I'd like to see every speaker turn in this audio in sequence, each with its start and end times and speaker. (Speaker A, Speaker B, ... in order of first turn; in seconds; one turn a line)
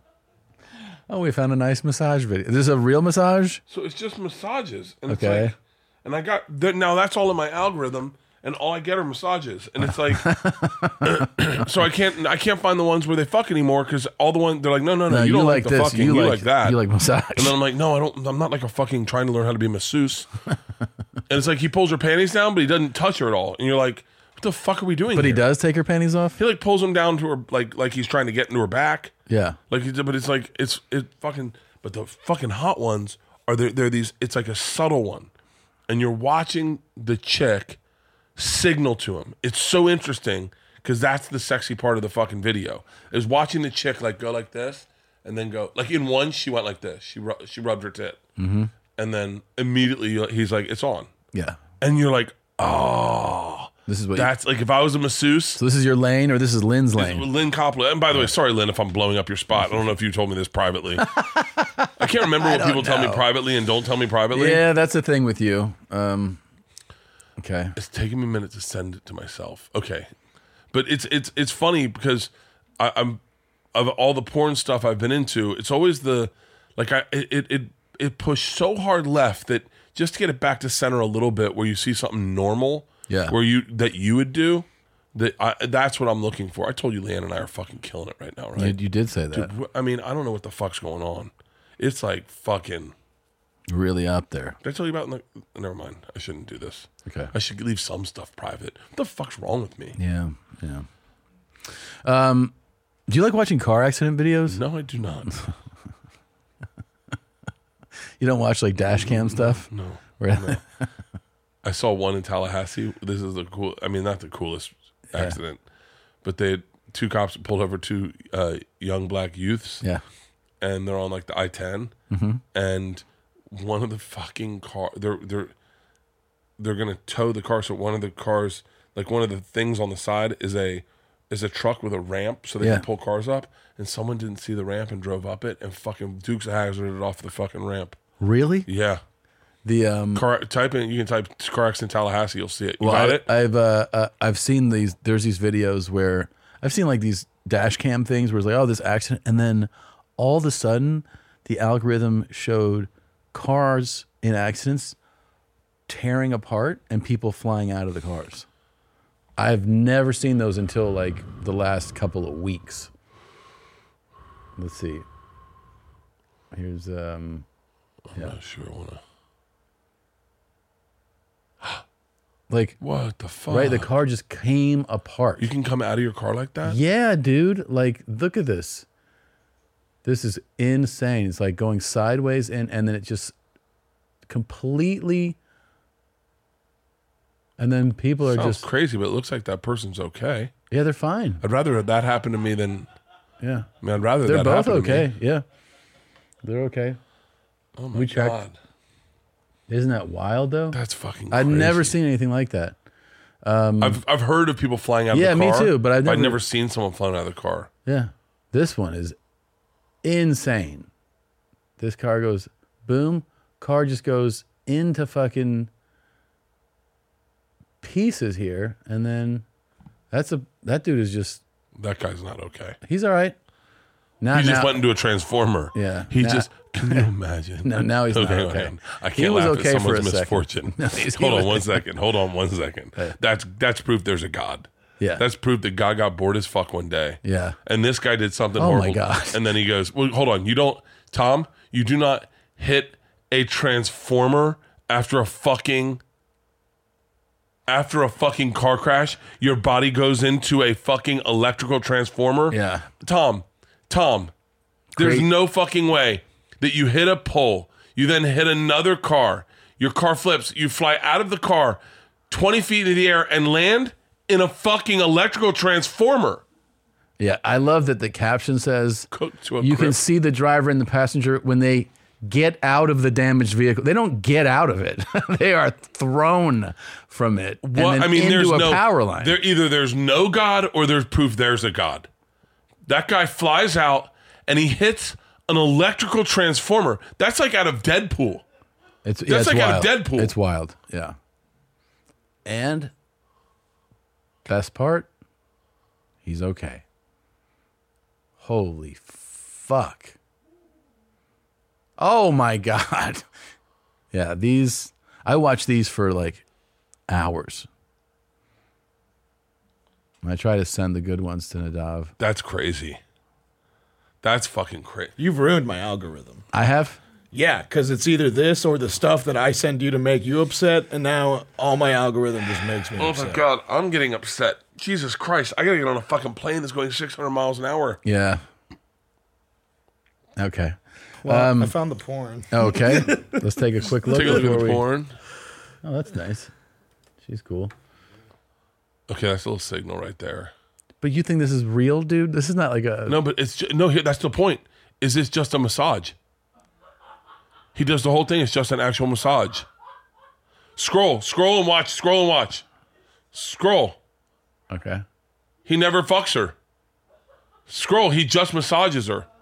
Speaker A: 1.1-3.6
Speaker B: 3.7-10.3
Speaker A: 5.1-5.5
Speaker A: 10.1-11.3
Speaker B: 11.0-16.8
Speaker A: 15.1-17.5
Speaker B: 17.4-20.3
Speaker B: 21.3-25.4
Speaker A: 25.1-26.4
Speaker B: 26.4-29.1
Speaker A: 29.3-29.6
Speaker B: 29.7-35.3
Speaker B: 35.9-37.8
Speaker B: 38.4-48.2
Speaker A: 48.4-48.7
Speaker B: 49.0-51.1
Speaker A: 51.3-51.6
Speaker B: 51.8-55.6
Speaker A: 53.9-54.3
Speaker A: 55.6-57.3
Speaker B: 57.0-61.1
Speaker A: 61.0-63.2
Speaker B: 62.0-64.6
Speaker A: 64.3-66.4
Speaker A: 67.4-67.7
Speaker B: 67.8-70.1
Speaker B: 70.7-73.2
Speaker B: 73.7-88.8
Speaker A: 83.1-83.3
Speaker A: 88.6-89.5
Speaker B: 89.3-92.9
Speaker A: 93.7-94.6
Speaker B: 94.6-100.0
Speaker A: 97.0-97.3
Speaker A: 100.0-100.8
Speaker A: 102.0-102.5
Speaker A: 103.1-104.6
Speaker B: 104.5-105.3
Speaker A: 108.2-110.6
Speaker B: 108.8-110.6
Speaker B: 111.6-115.6
Speaker A: 115.1-115.4
Speaker B: 116.2-119.8
Speaker B: 120.6-121.9
Speaker A: 122.1-122.4
Speaker B: 122.5-125.5
Speaker B: 126.6-138.0
Speaker A: 138.2-138.7
Speaker B: 138.7-139.0
Speaker A: 139.6-140.2
Speaker B: 140.1-143.3
Speaker A: 142.8-154.9
Speaker A: 155.9-158.4
Speaker A: 159.4-162.9
Speaker A: 164.6-165.1
Speaker A: 166.5-167.4
Speaker B: 168.1-169.0
Speaker A: 172.5-172.8
Speaker B: 172.8-173.9
Speaker A: 173.5-175.5
Speaker B: 175.4-176.8
Speaker A: 176.6-178.8
Speaker A: 180.0-183.3
Speaker A: 184.3-185.4
Speaker A: 187.6-188.7
Speaker B: 188.2-190.5
Speaker A: 190.7-191.4
Speaker B: 191.4-192.9
Speaker A: 193.4-193.7
Speaker B: 193.8-195.1
Speaker A: 194.2-195.4
Speaker A: 196.4-197.0
Speaker B: 197.8-198.6
Speaker A: 197.9-198.4
Speaker A: 199.7-200.8
Speaker B: 200.7-201.9
Speaker A: 201.3-202.8
Speaker A: 203.4-204.0
Speaker B: 203.8-207.7
Speaker A: 205.1-206.4
Speaker A: 207.8-209.2
Speaker A: 210.0-210.9
Speaker A: 211.8-215.7
Speaker A: 217.8-219.4
Speaker A: 220.1-221.4
Speaker B: 221.8-222.8
Speaker A: 222.8-223.3
Speaker A: 224.2-224.8
Speaker B: 224.3-246.0
Speaker A: 225.7-227.1
Speaker A: 227.6-231.8
Speaker A: 237.2-237.6
Speaker A: 238.6-239.4
Speaker B: 247.7-254.3
Speaker A: 252.5-252.9
Speaker A: 254.9-255.3
Speaker B: 254.9-266.4
Speaker A: 267.2-269.1
Speaker B: 269.1-270.0
Speaker A: 269.6-279.4
Speaker B: 277.6-282.1
Speaker B: 282.9-288.4
Speaker A: 289.0-291.1
Speaker B: 289.2-290.3
Speaker A: 292.4-292.9
Speaker A: 294.5-295.1
Speaker A: 296.2-296.8
Speaker A: 298.4-300.1
Speaker A: 302.0-303.2
Speaker A: 304.1-306.4
Speaker A: 307.1-307.7
Speaker A: 310.2-312.1
Speaker B: 312.2-313.0
Speaker B: 314.2-315.1
Speaker C: 315.2-316.4
Speaker A: 316.5-317.0
Speaker C: 317.3-323.4
Speaker B: 322.9-328.0
Speaker A: 328.0-328.4
Speaker A: 330.4-331.7
Speaker C: 331.2-333.4
Speaker A: 332.5-334.8
Speaker B: 334.0-335.2
Speaker A: 335.8-336.5
Speaker A: 337.2-337.7
Speaker B: 339.1-340.5
Speaker A: 341.0-343.2
Speaker B: 343.1-346.1
Speaker B: 347.7-349.7
Speaker B: 350.8-352.6
Speaker B: 353.3-354.0
Speaker A: 354.7-355.0
Speaker B: 355.6-356.6
Speaker B: 357.7-359.3